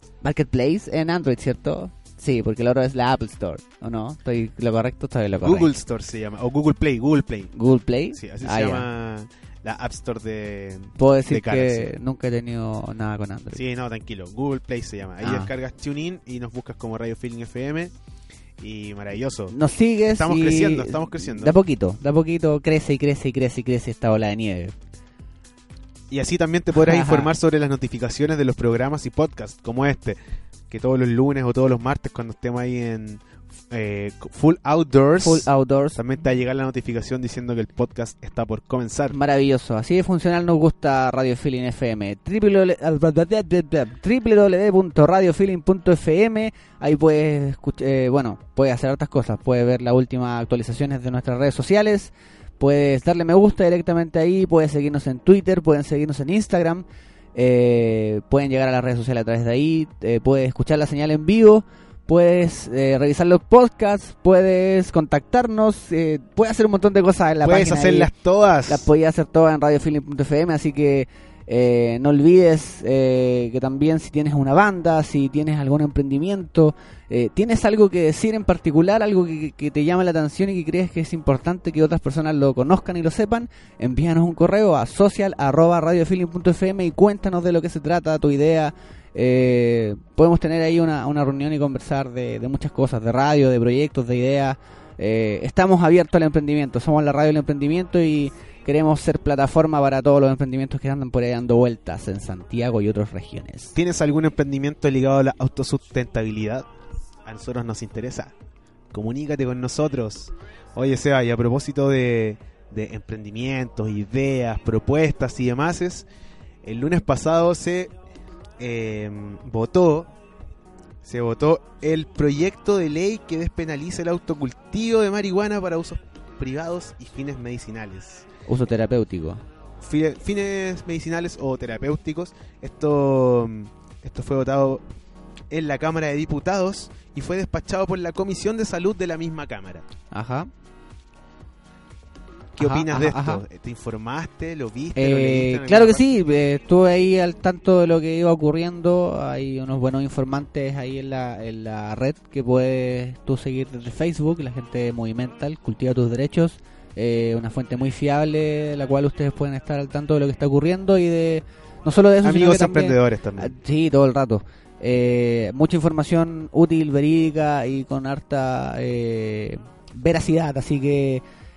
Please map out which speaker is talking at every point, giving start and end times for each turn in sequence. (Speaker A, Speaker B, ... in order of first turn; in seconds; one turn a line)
Speaker A: 0.2-5.7
Speaker B: 5.4-7.5
Speaker A: 7.5-8.9
Speaker B: 8.1-11.9
Speaker A: 11.0-13.6
Speaker B: 13.5-17.9
Speaker A: 15.2-15.5
Speaker B: 18.6-19.6
Speaker A: 19.5-24.7
Speaker B: 20.1-21.6
Speaker B: 26.1-30.2
Speaker A: 26.7-27.3
Speaker B: 30.7-39.2
Speaker A: 35.2-36.0
Speaker A: 39.1-68.1
Speaker B: 67.4-68.9
Speaker A: 68.7-103.7
Speaker B: 103.7-106.7
Speaker B: 107.2-108.3
Speaker B: 108.9-116.1
Speaker B: 116.6-117.9
Speaker B: 118.6-120.1
Speaker B: 121.0-128.3
Speaker A: 128.5-129.4
Speaker B: 129.8-134.8
Speaker B: 135.5-139.8
Speaker A: 140.1-140.5
Speaker B: 142.6-146.0
Speaker A: 142.6-143.4
Speaker A: 144.9-171.2
Speaker B: 162.2-163.5